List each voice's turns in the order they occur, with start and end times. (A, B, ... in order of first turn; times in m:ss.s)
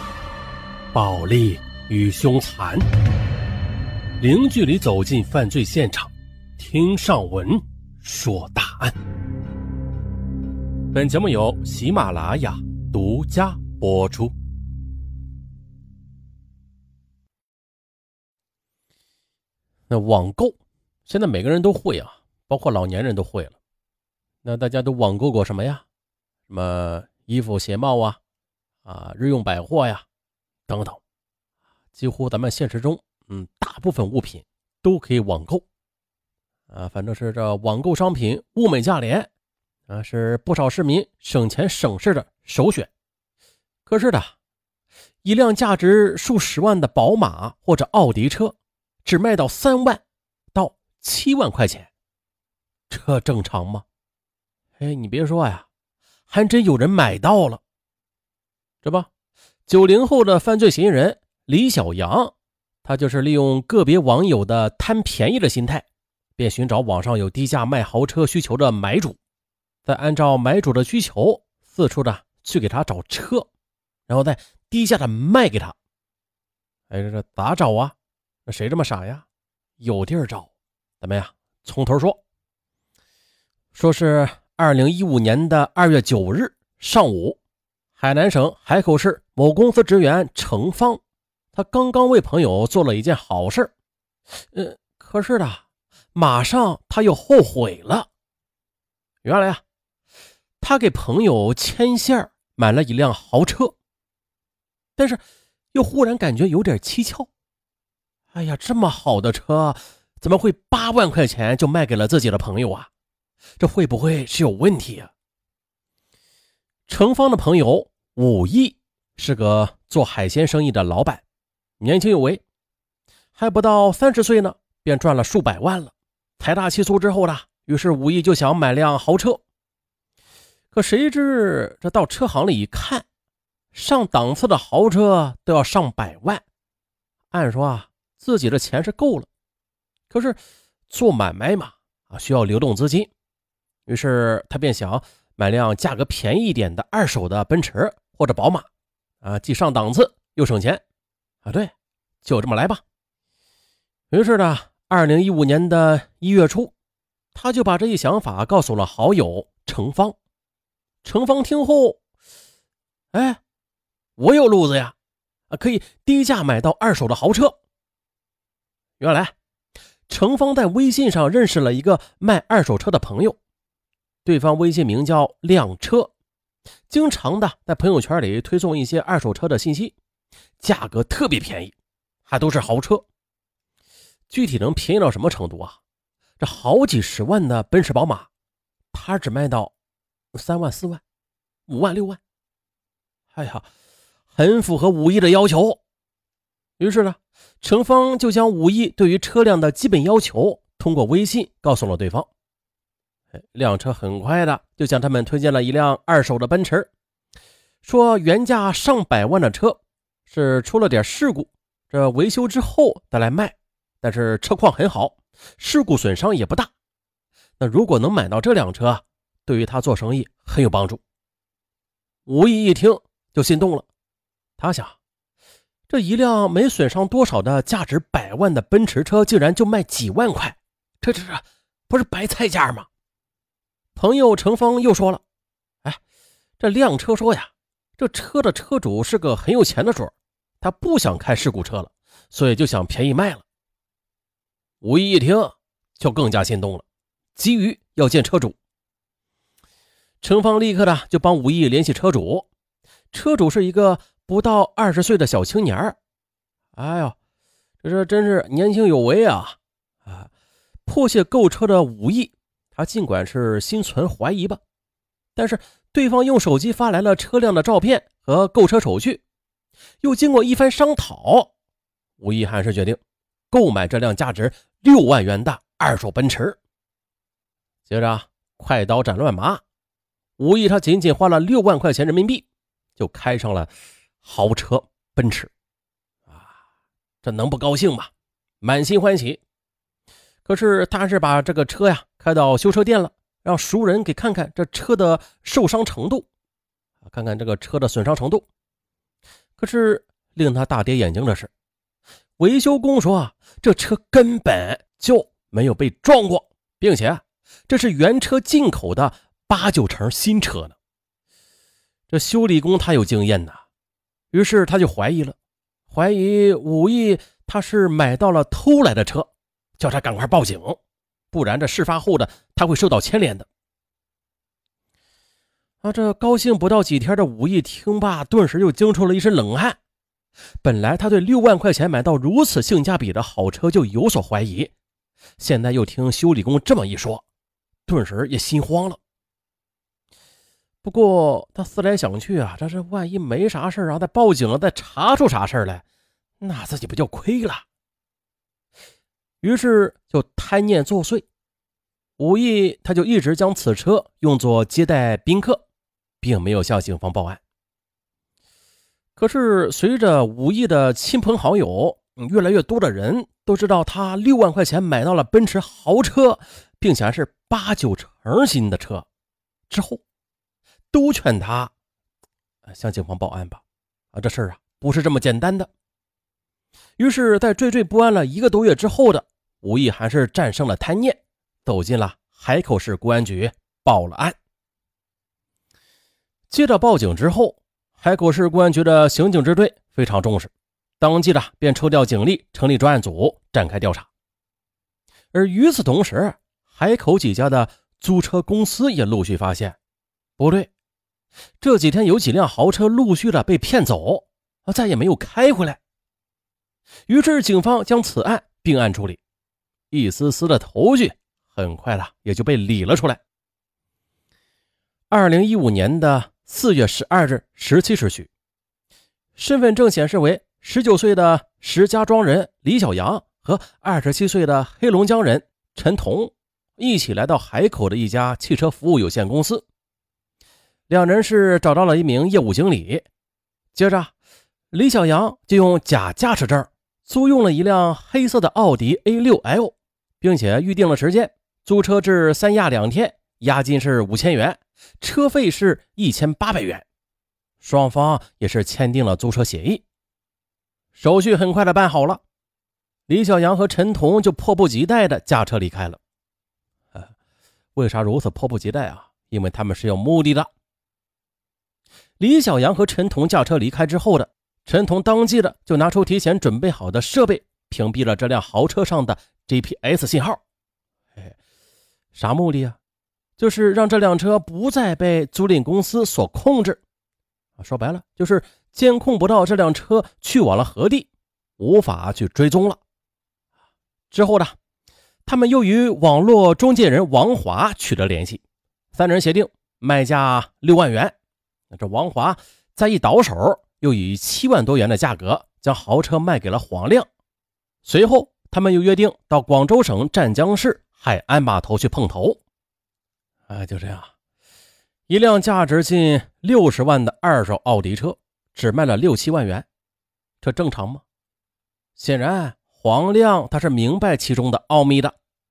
0:00.9-0:02.8 A
0:04.2-0:08.9 A
0:10.9-0:14.3 A
0:19.9-0:23.6 A
0:24.4-0:25.8 A
0:26.5-0:28.2 A
0:28.8-0:30.0 A
0:30.7-0:31.0 A
0:31.9-0:35.6 A
0:36.7-0:39.3 A
0:39.9-0:42.9 A
0:43.8-0:44.3 A
0:45.2-0:51.9 A
0:52.9-0:53.8 A
0:54.8-0:55.7 A
0:56.3-0:57.6 A
0:58.8-0:59.1 A
0:59.7-1:05.8 A
1:06.4-1:09.2 A
1:09.8-1:13.5 A
1:14.1-1:15.8 A
1:16.9-1:17.9 A
1:18.4-1:19.2 A
1:19.8-1:22.2 A
1:23.7-1:27.4 A
1:28.0-1:31.0 A
1:31.5-1:33.7 A
1:34.5-1:38.1 A
1:39.2-1:39.6 A
1:40.6-1:43.7 A
1:45.0-1:45.2 A
1:45.7-1:47.3 A
1:48.3-1:52.9 A
1:53.6-1:55.1 A
1:56.9-2:01.2 A
2:01.8-2:02.4 A
2:03.4-2:09.4 A
2:10.7-2:13.0 A
2:13.7-2:16.4 A
2:17.3-2:19.3 A
2:20.1-2:20.4 A
2:20.9-2:23.1 A
2:23.9-2:28.7 A
2:29.2-2:30.8 A
2:31.4-2:32.8 A
2:34.1-2:36.7 A
2:37.3-2:40.2 A
2:41.0-2:42.0 A
2:43.1-2:43.4 A
2:44.2-2:44.9 A
2:45.5-2:47.6 A
2:49.0-2:49.3 A
2:50.1-2:53.4 A
2:54.2-2:56.1 A
2:56.9-2:59.9 A
3:00.6-3:01.7 A
3:02.2-3:03.0 A
3:04.3-3:05.8 A
3:06.4-3:08.3 A
3:08.9-3:09.7 A
3:10.3-3:11.0 A
3:11.7-3:12.2 A
3:13.3-3:13.6 A
3:14.3-3:15.8 A
3:16.8-3:22.3 A
3:23.3-3:26.9 A
3:27.8-3:36.7 A
3:37.6-3:41.0 A
3:42.2-3:43.9 A
3:44.6-3:45.0 A
3:45.9-3:52.9 A
3:53.9-3:55.2 A
3:56.6-4:03.4 A
4:04.8-4:06.8 A
4:07.4-4:08.6 A
4:10.2-4:12.5 A
4:13.1-4:16.0 A
4:16.8-4:17.2 A
4:17.8-4:20.3 A
4:20.8-4:24.6 A
4:25.4-4:29.2 A
4:30.0-4:31.5 A
4:32.2-4:33.0 A
4:33.5-4:36.6 A
4:37.9-4:39.6 A
4:40.4-4:42.4 A
4:43.0-4:43.7 A
4:44.2-4:45.5 A
4:47.2-4:48.1 A
4:48.6-4:49.4 A
4:50.4-4:56.2 A
4:57.0-4:58.4 A
4:59.6-5:01.5 A
5:02.4-5:10.8 A
5:12.1-5:13.6 A
5:14.3-5:15.4 A
5:15.9-5:20.8 A
5:21.3-5:23.5 A
5:25.8-5:29.8 A
5:30.6-5:34.7 A
5:35.4-5:37.2 A
5:37.9-5:39.0 A
5:40.8-5:45.8 A
5:46.4-5:47.6 A
5:49.4-5:51.2 A
5:52.2-5:55.6 A
5:56.2-5:57.4 A
5:59.2-6:09.0 A
6:09.7-6:10.0 A
6:10.9-6:11.7 A
6:12.6-6:15.7 A
6:17.0-6:24.4 A
6:26.5-6:34.1 A
6:35.3-6:39.8 A
6:40.4-6:40.7 A
6:41.6-6:45.8 A
6:47.1-6:49.2 A
6:49.9-6:53.2 A
6:55.1-6:58.3 A
6:59.4-7:09.6 A
7:10.9-7:13.0 A
7:13.7-7:14.1 A
7:14.7-7:26.8 A
7:27.6-7:29.8 A
7:30.9-7:32.2 A
7:33.1-7:36.0 A
7:37.8-7:40.5 A
7:42.2-7:50.4 A
7:52.1-7:52.8 A
7:53.4-7:56.8 A
7:57.6-8:02.8 A
8:04.1-8:04.6 A
8:05.2-8:08.4 A
8:08.9-8:11.1 A
8:11.7-8:17.1 A
8:17.8-8:22.4 A
8:23.5-8:24.1 A
8:25.1-8:29.6 A
8:30.4-8:31.0 A
8:32.0-8:35.1 A